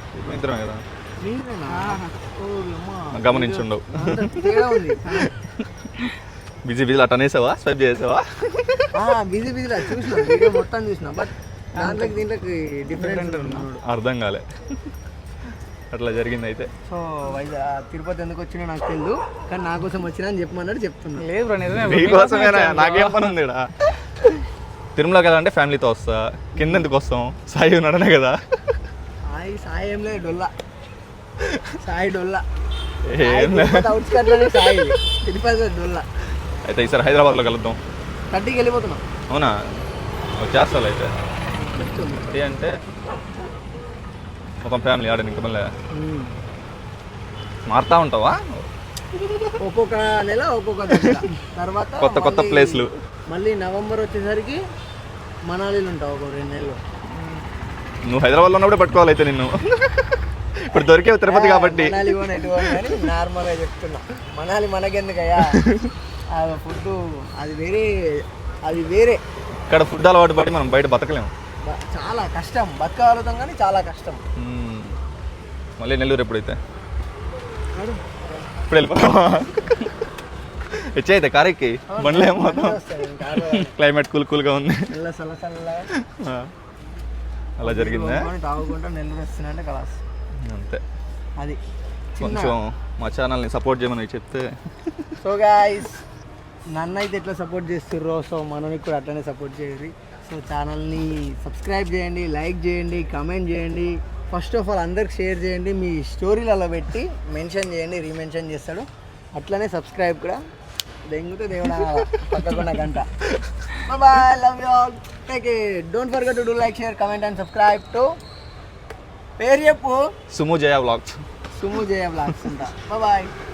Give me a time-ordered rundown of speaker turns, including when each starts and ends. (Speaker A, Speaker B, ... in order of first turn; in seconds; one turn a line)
Speaker A: 0.1-0.8
Speaker B: 1.2-5.3
Speaker C: 1.7-2.1
Speaker A: 3.1-4.4
Speaker A: 6.7-8.9
Speaker B: 8.9-13.8
Speaker C: 11.8-12.2
Speaker C: 13.0-13.7
Speaker A: 13.8-14.4
Speaker A: 15.9-16.7
Speaker B: 16.9-21.2
Speaker C: 21.2-23.3
Speaker A: 21.8-23.7
Speaker A: 24.9-28.4
Speaker B: 26.6-26.9
Speaker B: 29.3-30.5
Speaker B: 31.8-32.4
Speaker A: 33.0-33.9
Speaker B: 33.2-36.0
Speaker A: 36.7-37.8
Speaker B: 38.3-39.0
Speaker A: 40.4-41.1
Speaker B: 41.5-42.4
Speaker A: 42.3-42.7
Speaker A: 44.6-45.7
Speaker B: 45.9-46.3
Speaker A: 47.7-48.7
Speaker B: 49.6-54.6
Speaker A: 52.0-52.9
Speaker B: 55.5-56.8
Speaker A: 58.1-59.6
Speaker A: 60.7-62.1
Speaker B: 61.2-65.6
Speaker A: 65.5-65.9
Speaker B: 66.3-69.2
Speaker A: 69.7-71.3
Speaker B: 71.6-74.2
Speaker A: 74.4-75.0
Speaker A: 75.8-76.6
Speaker B: 77.8-78.2
Speaker A: 78.7-79.7
Speaker A: 81.0-82.8
Speaker B: 81.9-83.7
Speaker A: 83.6-84.9
Speaker B: 84.9-85.9
Speaker A: 86.0-86.5
Speaker A: 87.6-88.3
Speaker B: 87.6-90.0
Speaker A: 90.5-90.8
Speaker B: 92.2-92.5
Speaker A: 92.2-95.0
Speaker B: 95.2-96.0
Speaker B: 96.7-110.4
Speaker B: 111.1-113.1
Speaker B: 113.8-118.1
Speaker B: 119.4-120.1
Speaker A: 120.3-121.2
Speaker B: 121.5-123.3